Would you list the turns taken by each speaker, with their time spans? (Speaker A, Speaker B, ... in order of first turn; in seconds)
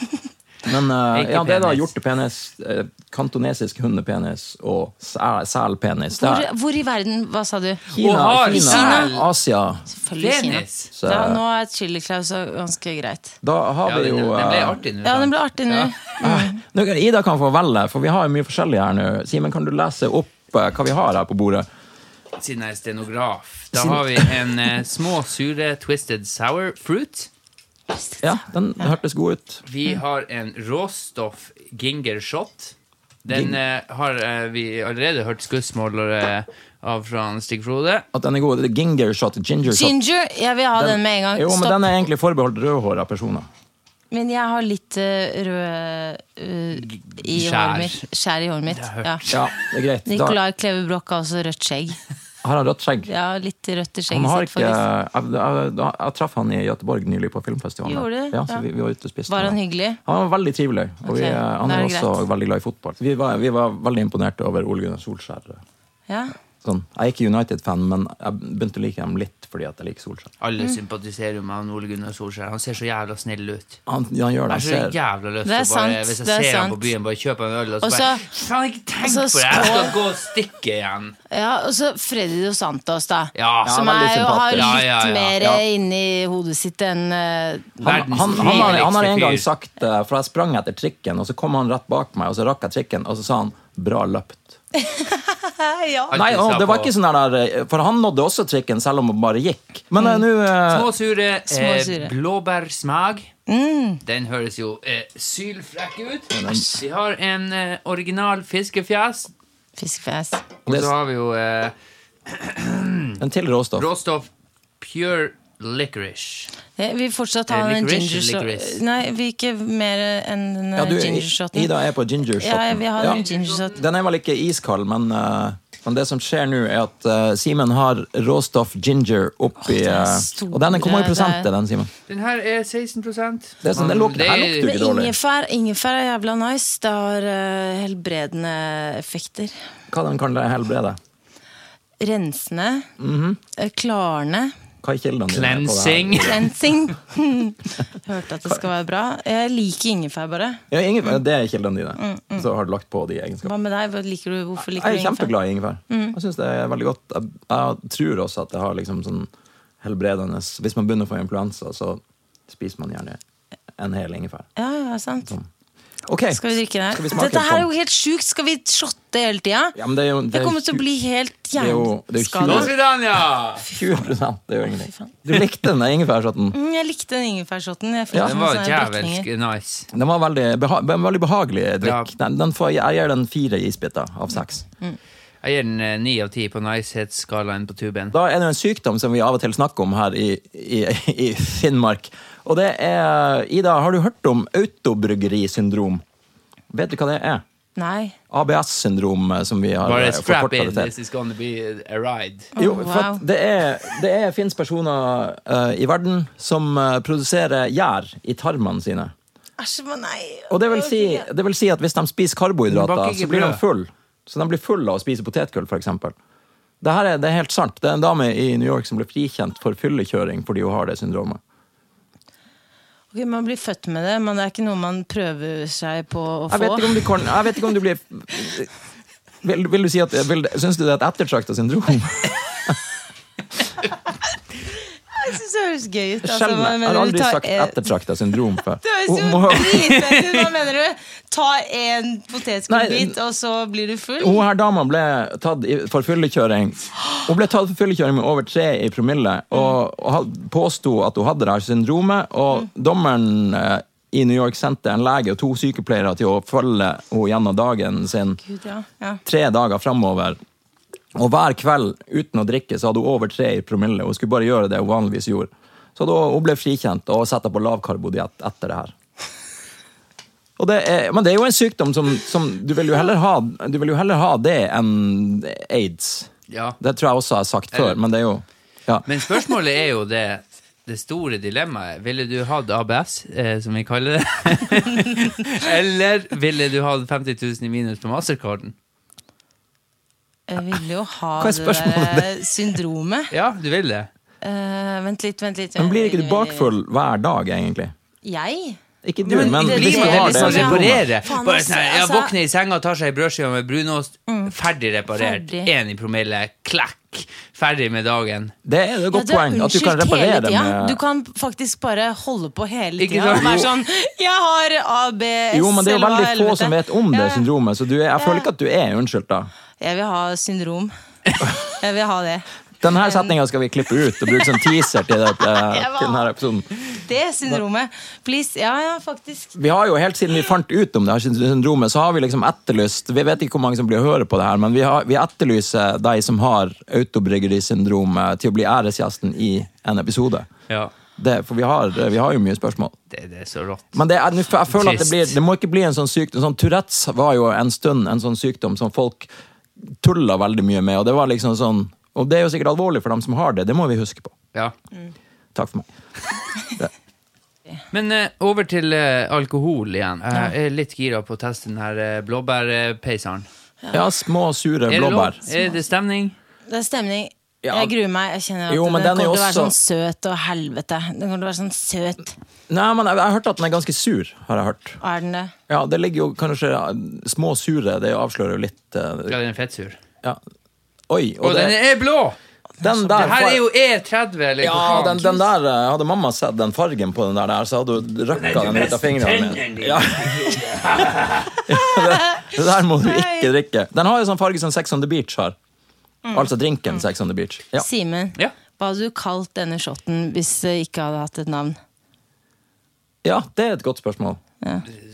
Speaker A: 0.6-6.5, 7.9-9.9, 10.9-11.4, 13.4-14.8, 16.2-21.6, 23.7-24.4, 28.2-29.6, 33.3-33.6, 38.1-39.9, 40.8-43.5, 49.3-50.4, 52.4-53.1, 54.1-65.6, 66.6-70.3, 73.9-75.0, 83.6-84.8, 87.8-94.6, 96.1-100.9, 106.3-106.7, 110.7-110.9, 113.2-113.9, 120.8-131.9, 133.6-135.1, 139.9-141.0, 143.0-143.4, 144.8-146.5, 150.7-153.5, 154.6-159.3, 159.8-163.2, 163.8-164.5, 166.1-167.7, 169.7-170.8, 171.6-172.7, 173.7-176.6, 179.9-184.6, 188.1-196.0, 196.7-197.4, 198.3-200.9, 202.6-209.1, 210.5-216.1, 216.8-221.4, 226.5-228.7, 229.4-232.8, 236.2-240.0, 242.7-243.1, 244.2-258.4, 259.2-260.4, 261.1-268.9, 270.6-279.1, 291.4-292.4, 295.8-297.9, 299.0-301.0, 308.6-311.0, 313.3-313.7, 315.5-319.5, 322.8-326.7, 329.5-340.5, 341.2-342.9, 343.9-349.3, 349.9-354.3, 355.5-355.9, 363.9-365.4, 367.6-367.9, 368.7-369.7, 372.7-375.0, 375.7-379.4, 381.1-381.7, 382.8-383.6, 384.6-390.6, 391.6-395.6, 396.3-397.9, 403.2-404.4
Speaker B: 1.1-1.9, 7.9-9.3, 10.2-10.9, 13.8-15.9, 22.4-27.3, 29.6-32.7, 33.2-38.0, 46.8-48.0, 48.7-49.4, 70.4-73.8, 74.5-81.2, 83.3-83.8, 84.5-85.4, 87.8-89.5, 96.1-96.9, 100.7-103.3, 104.0-109.3, 110.7-111.7, 112.2-113.2, 113.8-114.3, 114.8-116.5, 117.5-118.8, 123.0-123.7, 132.1-134.7, 145.3-146.5, 172.4-173.7, 178.2-179.9, 181.8-182.1, 185.4-188.1, 199.8-202.5, 212.7-213.6, 276.5-276.8, 277.7-278.0, 279.1-288.7, 293.3-294.1, 299.2-308.5, 313.0-313.6, 343.1-344.0, 344.7-345.3, 357.9-363.5, 364.9-366.4, 379.3-380.0, 381.4-382.4, 383.1-385.4, 388.3-391.6
Speaker C: 6.1-9.1, 9.9-13.4, 15.0-16.6, 39.6-41.9, 44.1-49.2, 50.0-52.0, 53.1-54.8, 57.8-58.6, 59.3-60.0, 61.0-62.2, 66.1-66.3, 75.4-76.9, 77.8-78.2, 79.0-80.0, 81.3-88.8, 94.8-96.1, 101.5-102.1, 103.5-104.0, 109.8-110.4, 116.8-121.7, 122.4-123.8, 129.6-131.5, 134.6-139.6, 142.0-142.9, 143.6-144.5, 146.2-150.6, 152.0-152.4, 153.4-155.3, 155.9-156.2, 164.6-165.3, 166.3-169.8, 170.3-172.7, 176.5-179.2, 197.8-198.2, 202.6-203.2, 209.6-211.3, 223.1-227.1, 235.1-237.8, 238.8-244.4, 258.4-259.2, 290.5-293.3, 294.4-296.7, 298.2-298.8, 299.4-302.3, 304.3-304.5, 305.1-305.7, 309.1-317.5, 318.2-318.5, 319.8-323.3, 325.5-326.3, 326.9-329.5, 363.8-364.1, 366.7-372.4, 375.0-375.5, 382.8-383.2, 391.9-393.5, 396.2-397.0, 397.8-401.8